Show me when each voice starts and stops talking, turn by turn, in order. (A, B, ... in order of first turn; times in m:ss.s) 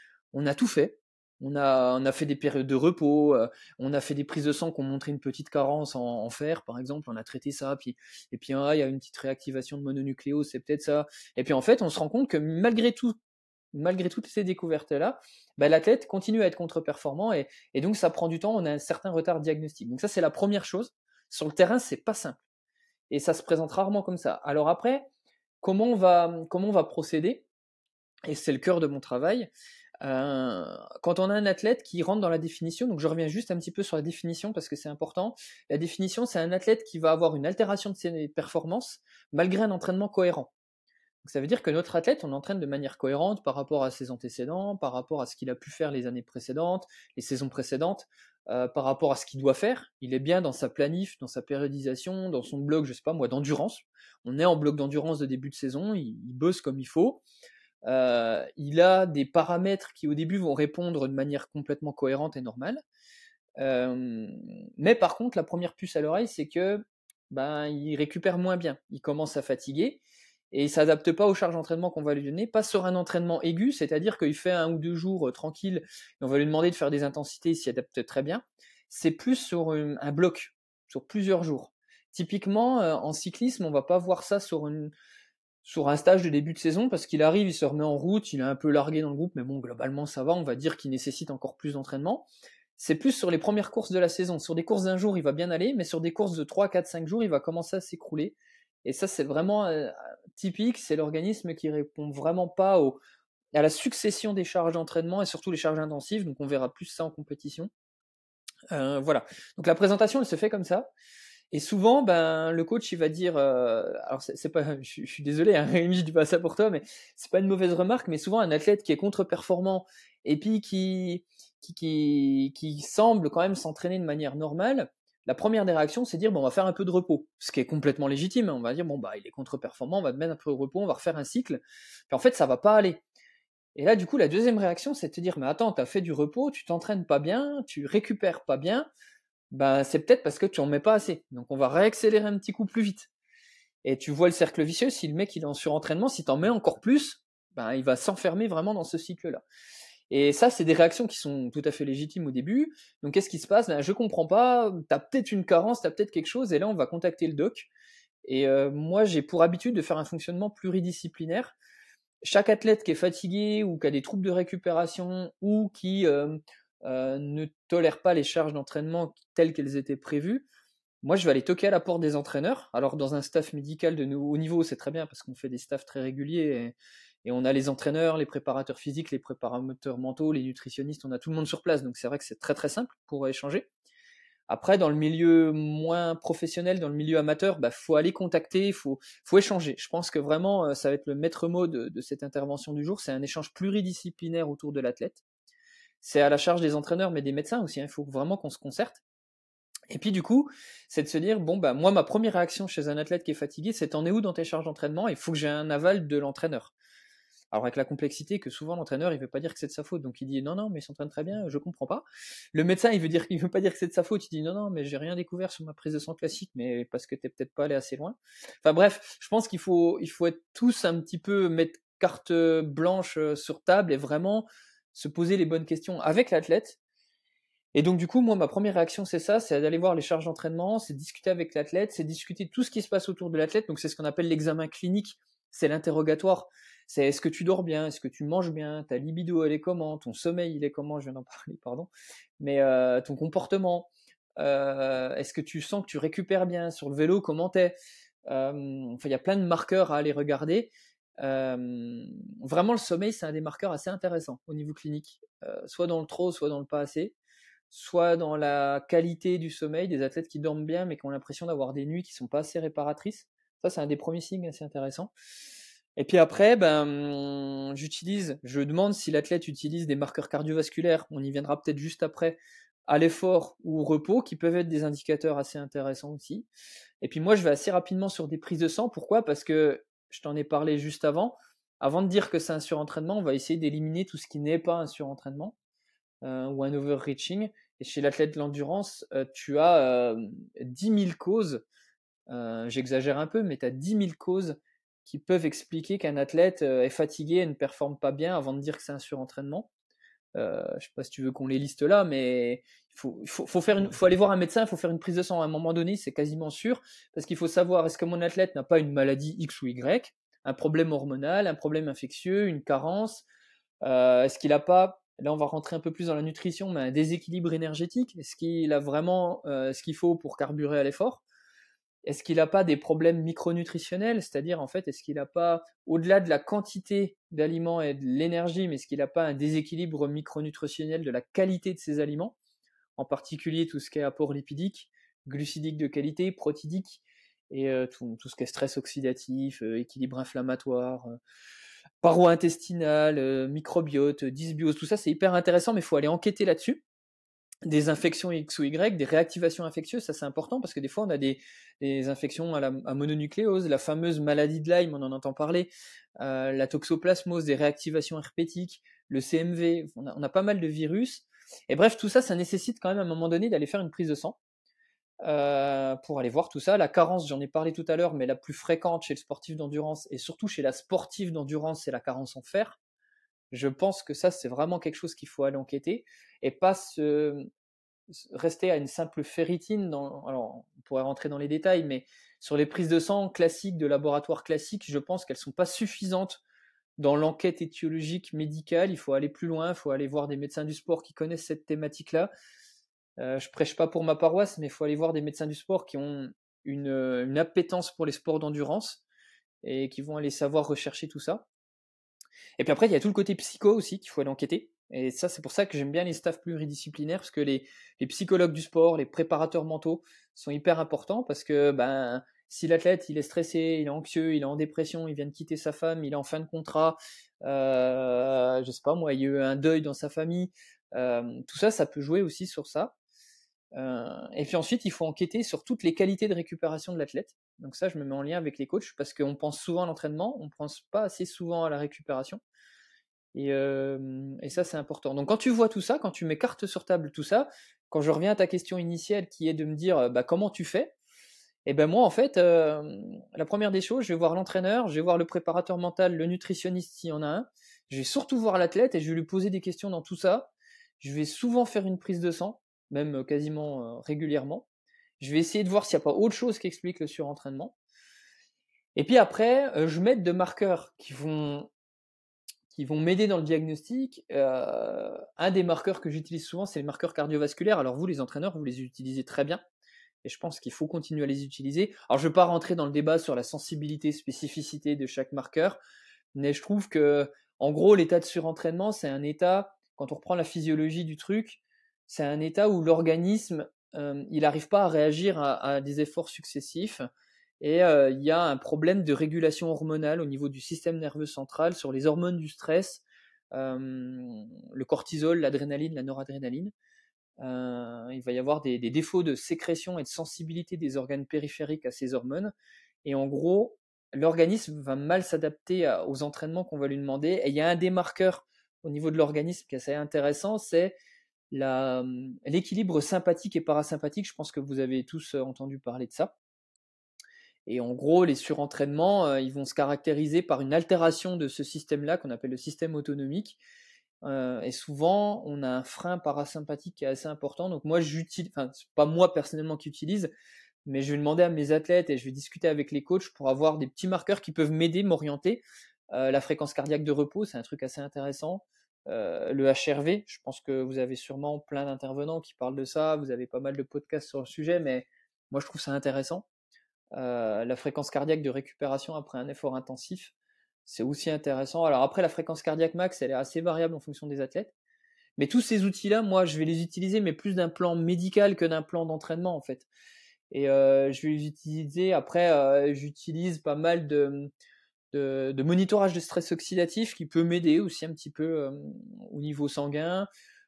0:00.3-0:13.2 A
0:13.7-0:22.4 A
0:23.1-0:25.1 A
0:25.6-0:27.4 A
0:28.3-0:29.5 A
0:30.0-0:40.5 A
0:41.2-0:57.2 A
0:57.8-1:02.8 A
1:03.6-1:10.0 A
1:10.5-1:24.9 A
1:25.6-1:43.0 A
1:43.5-1:47.7 A
1:48.7-1:50.9 A
1:51.5-2:13.0 A
2:13.8-2:18.9 A
2:19.5-2:23.1 A
2:23.8-2:29.4 A
2:30.1-2:37.7 A
2:38.2-2:41.6 A
2:42.2-2:50.5 A
2:51.0-3:03.7 A
3:04.5-3:15.2 A
3:16.0-3:19.0 A
3:19.9-3:26.7 A
3:27.5-3:46.8 A
3:47.7-4:07.8 A
4:08.3-4:17.2 A
4:17.7-4:25.1 A
4:26.0-4:36.5 A
4:37.0-4:45.6 A
4:46.2-4:51.6 A
4:52.3-4:59.7 A
5:00.4-5:13.2 A
5:13.8-5:21.2 A
5:22.0-5:32.4 A
5:33.0-5:41.2 A
5:42.0-5:46.8 A
5:47.6-6:04.4 A
6:05.2-6:12.8 A
6:13.5-6:17.4 A
6:18.1-6:26.4 A
6:27.0-6:32.3 A
6:33.2-6:39.0 A
6:39.6-6:41.4 A
6:42.6-7:02.9 A
7:03.8-7:12.4 A
7:13.3-7:20.9 A
7:21.6-7:34.7 A
7:35.2-7:37.8 A
7:39.0-7:41.7 A
7:42.7-7:49.6 A
7:50.2-7:55.8 A
7:56.3-8:07.1 A
8:07.6-8:16.7 A
8:17.4-8:22.5 A
8:23.0-8:31.0 A
8:31.5-8:36.3 A
8:37.7-8:43.6 A
8:44.2-8:50.3 A
8:50.8-9:06.5 A
9:07.2-9:10.3 A
9:10.9-9:14.7 A
9:15.4-9:19.9 A
9:20.5-9:24.5 A
9:25.1-9:30.3 A